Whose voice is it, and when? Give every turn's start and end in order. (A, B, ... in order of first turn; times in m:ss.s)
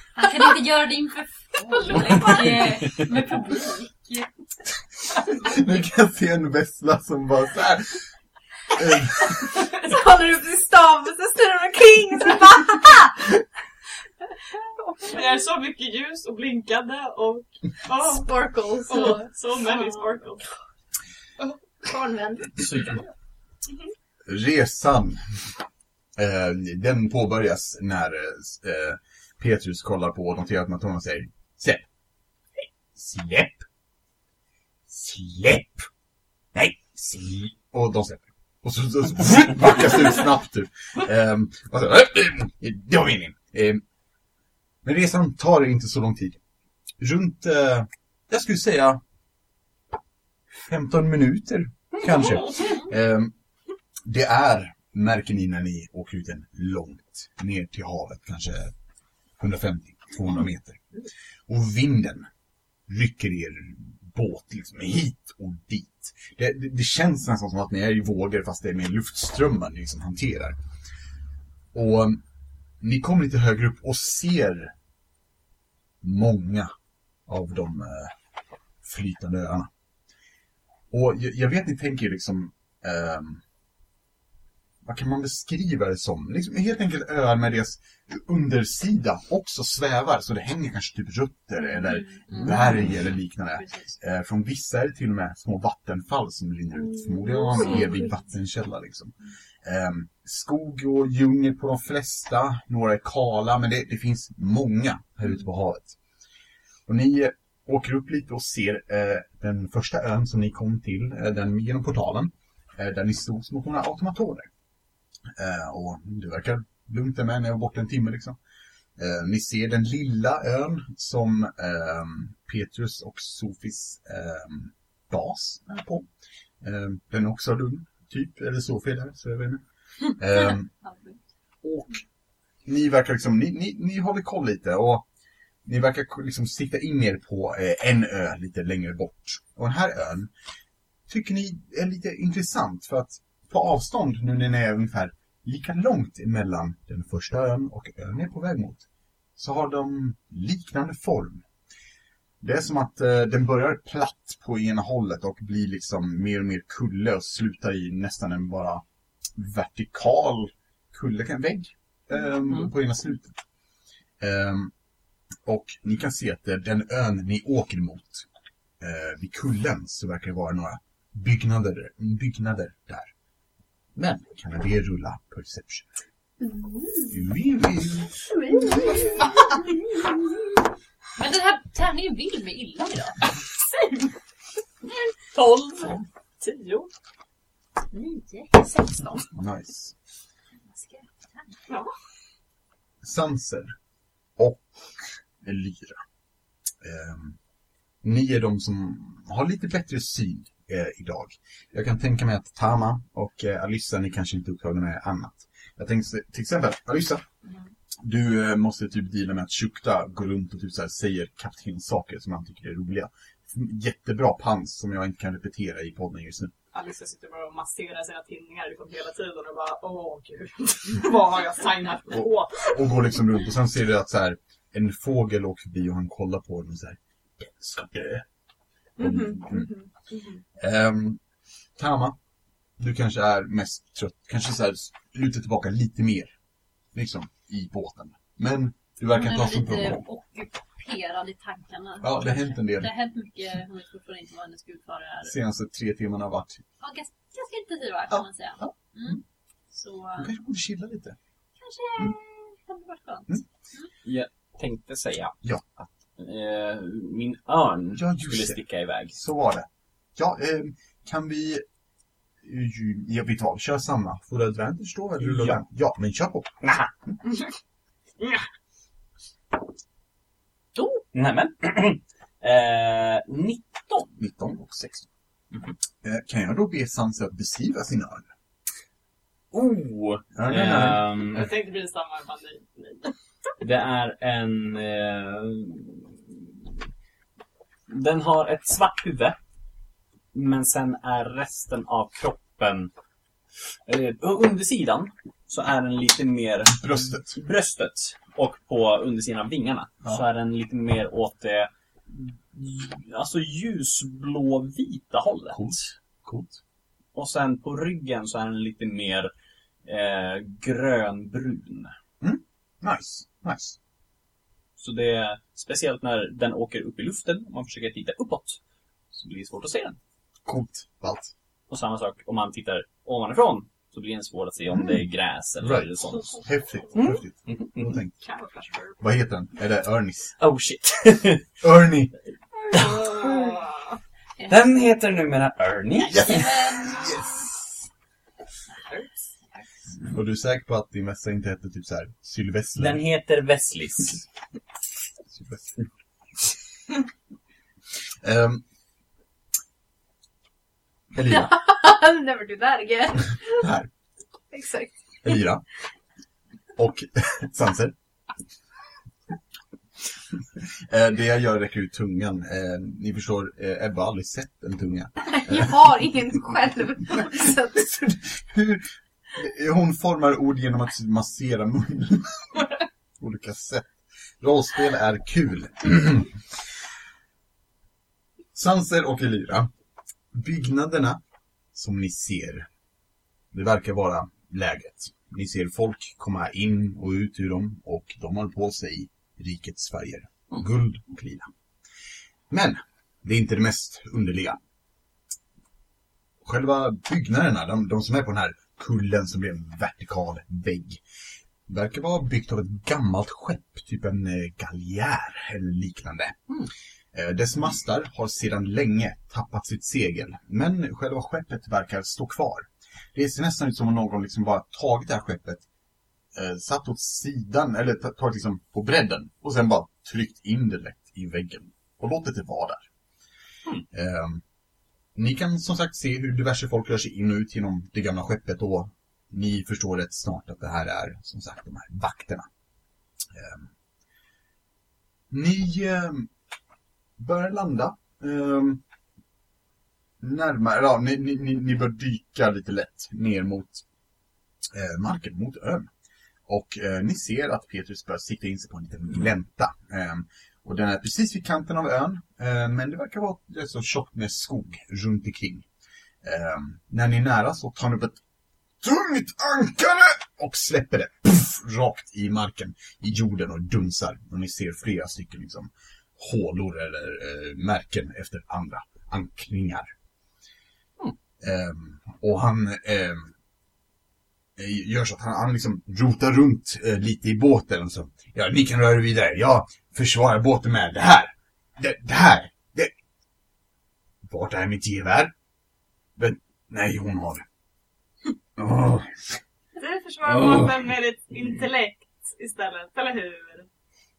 0:00.2-0:04.3 A
0:01.7-0:02.5 B
0:05.2-0:08.1 C
0:08.7-0:09.6 C
0:09.8-0:13.4 B
0:14.8-0:15.2 B
0:15.1-0:20.4 D
0:18.0-0:20.0 B
0:21.4-0:23.0 B
0:22.6-0:23.0 E
0:24.2-0:25.4 C
0:26.2-0:31.9 C
0:32.6-0:33.6 C
0:34.9-0:35.9 C
0:36.6-0:43.8 C
0:44.8-0:46.4 C
0:47.0-0:49.0 C
0:50.6-0:53.4 C
0:54.0-0:58.7 C
0:59.4-1:00.8 C
1:01.5-1:02.3 C
1:02.9-1:10.6 C
1:11.7-1:12.2 C
1:12.8-1:14.7 C
1:16.0-1:16.7 C
1:17.3-1:18.1 C
1:18.8-1:19.7 C
1:20.9-1:23.4 C
1:24.8-1:46.0 C
1:31.8-1:32.6 A
1:33.6-1:33.9 A
1:37.0-1:37.9 B
1:46.9-1:54.5 C
1:55.4-1:58.4 C
1:59.0-2:06.1 C
2:06.6-2:09.6 C
2:10.2-2:10.7 C
2:10.8-2:11.2 A
2:11.6-2:12.0 C
2:12.6-2:15.1 C
2:15.6-2:20.3 C
2:21.1-2:28.8 C
2:29.4-2:31.4 C
2:32.4-2:38.8 C
2:39.4-2:43.4 C
2:44.2-2:44.7 C
2:45.4-2:48.3 C
2:48.8-2:53.1 C
2:54.0-2:55.9 C
2:56.4-2:57.2 B
2:57.1-2:58.1 C
2:58.5-2:59.2 B
3:01.2-3:03.3 A
3:05.4-3:05.9 E
3:06.4-3:06.9 D
3:07.9-3:09.2 A
3:08.8-3:09.1 B
3:09.3-3:10.0 C
3:10.7-3:11.5 A
3:13.0-3:13.8 C
3:14.4-3:16.0 C
3:16.8-3:17.4 C
3:18.0-3:27.2 C
3:28.0-3:36.5 C
3:36.7-3:43.1 D
3:42.1-3:48.3 C
3:49.0-3:49.7 C
3:49.0-3:50.4 D
3:50.6-3:51.2 C
3:51.8-3:52.2 C
3:52.8-3:56.3 C
3:56.9-4:00.0 C
3:59.1-4:05.3 A
4:02.0-4:02.9 C
4:05.3-4:06.6 C
4:06.8-4:10.3 A
4:08.1-4:09.1 C
4:10.2-4:11.2 C
4:11.6-4:13.9 A
4:14.0-4:15.4 E
4:15.4-4:15.7 C
4:16.2-4:19.2 E
4:18.0-4:18.6 C
4:19.1-4:21.6 C
4:22.4-4:26.6 C
4:25.2-4:25.6 E
4:26.6-4:26.9 E
4:30.8-4:34.1 E
4:34.2-4:35.1 C
4:36.0-4:38.3 C
4:39.5-4:41.5 E
4:40.4-4:41.1 C
4:41.3-4:43.2 D
4:43.6-4:46.7 E
4:47.9-4:49.4 E
4:50.3-4:52.9 E
4:53.9-5:05.9 E
4:56.8-4:57.4 C
5:05.5-5:06.6 C
5:07.1-5:09.3 E
5:09.8-5:12.0 E
5:12.2-5:13.8 C
5:14.8-5:18.6 E
5:19.1-5:20.0 E
5:20.5-5:21.3 C
5:21.7-5:26.3 E
5:24.7-5:25.0 C
5:25.6-5:28.1 C
5:27.0-5:27.9 E
5:28.2-5:29.0 D
5:29.0-5:30.3 C
5:30.4-5:31.5 E
5:31.6-5:32.2 C
5:32.7-5:34.0 D
5:32.7-5:33.4 E
5:34.4-5:34.7 A
5:34.5-5:36.9 E
5:36.1-5:37.3 C
5:36.1-5:37.5 A
5:38.9-5:39.6 D
5:40.1-5:43.0 C
5:42.8-5:44.2 E
5:45.3-5:45.8 C
5:48.2-5:48.6 C
5:51.1-5:51.5 C
5:51.2-5:53.6 B
5:53.5-5:53.9 C
5:54.5-5:55.5 B
5:55.2-5:55.6 C
5:56.8-5:58.0 C
6:00.6-6:06.0 C
6:05.3-6:08.2 B
6:08.0-6:16.4 C
6:18.5-6:19.7 C
6:20.3-6:21.2 C
6:21.7-6:22.7 C
6:23.5-6:31.5 C
6:32.5-6:34.6 C
6:36.4-6:41.0 C
6:41.7-6:46.6 C
6:47.1-6:55.6 C
6:56.3-7:02.9 C
7:03.9-7:04.4 C
7:05.2-7:12.5 C
7:13.3-7:13.7 C
7:15.3-7:16.3 C
7:17.2-7:18.8 C
7:20.2-7:23.8 C
7:24.7-7:25.9 C
7:26.5-7:35.7 C
7:36.2-7:38.2 C
7:38.8-7:49.9 C
7:51.4-7:53.3 C
7:54.6-8:02.9 C
8:04.2-8:05.3 C
8:06.2-8:07.5 C
8:08.6-8:09.4 C
8:09.8-8:13.7 D